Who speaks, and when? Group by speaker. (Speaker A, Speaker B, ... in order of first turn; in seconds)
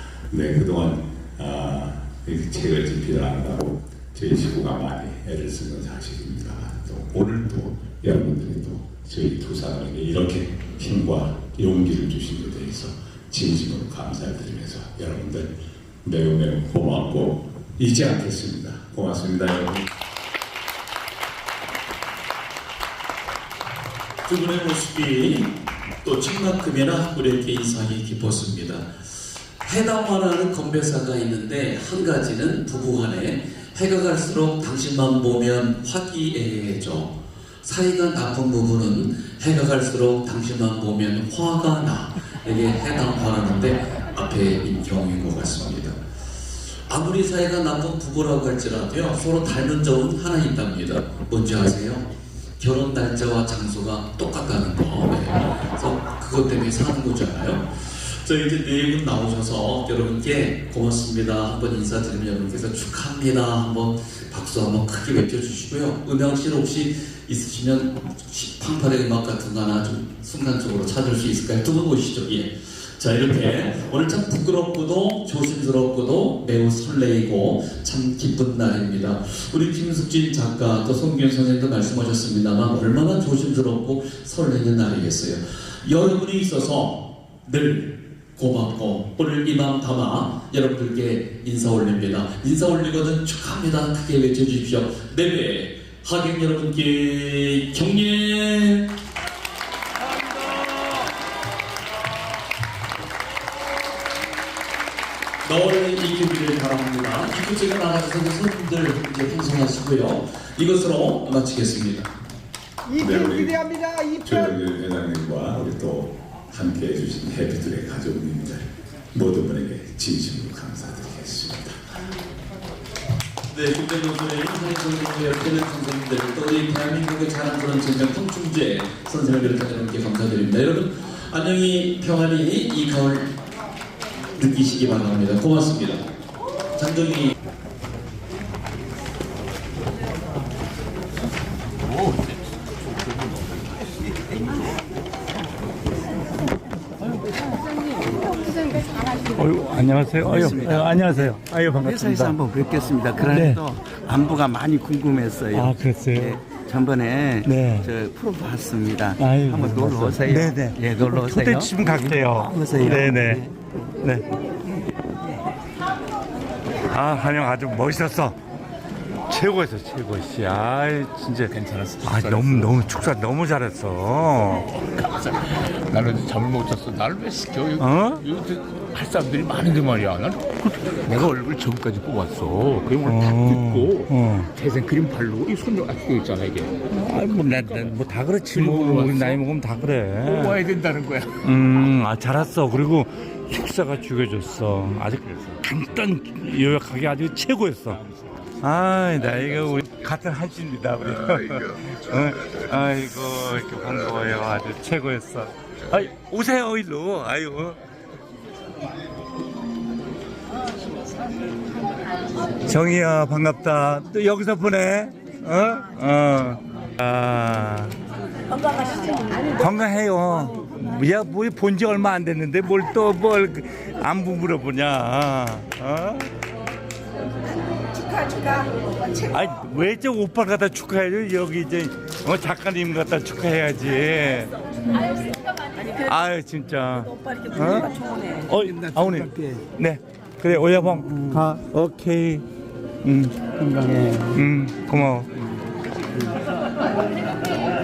Speaker A: 0.3-15.5, 16.0-19.9, 112.9-121.8
Speaker B: 24.3-28.9, 29.6-46.0, 46.9-52.1, 52.6-99.0, 105.4-112.1, 123.5-133.3, 134.4-136.1, 136.8-137.3
Speaker C: 149.4-152.4, 153.3-153.6, 155.5-156.4, 157.4-157.9, 159.2-163.5, 164.0-164.3, 166.9-168.4, 169.3-174.7, 177.8-178.3, 183.0-184.5, 187.0-190.6, 191.4-198.0, 198.6-207.8, 212.7-217.9, 219.5-226.3, 229.3-234.5, 236.0-237.9, 238.5-242.4, 243.0-243.4, 244.3-245.3
Speaker D: 150.2-163.5, 243.6-244.3
Speaker E: 171.5-172.8, 175.0-187.9, 188.5-189.4, 190.2-191.3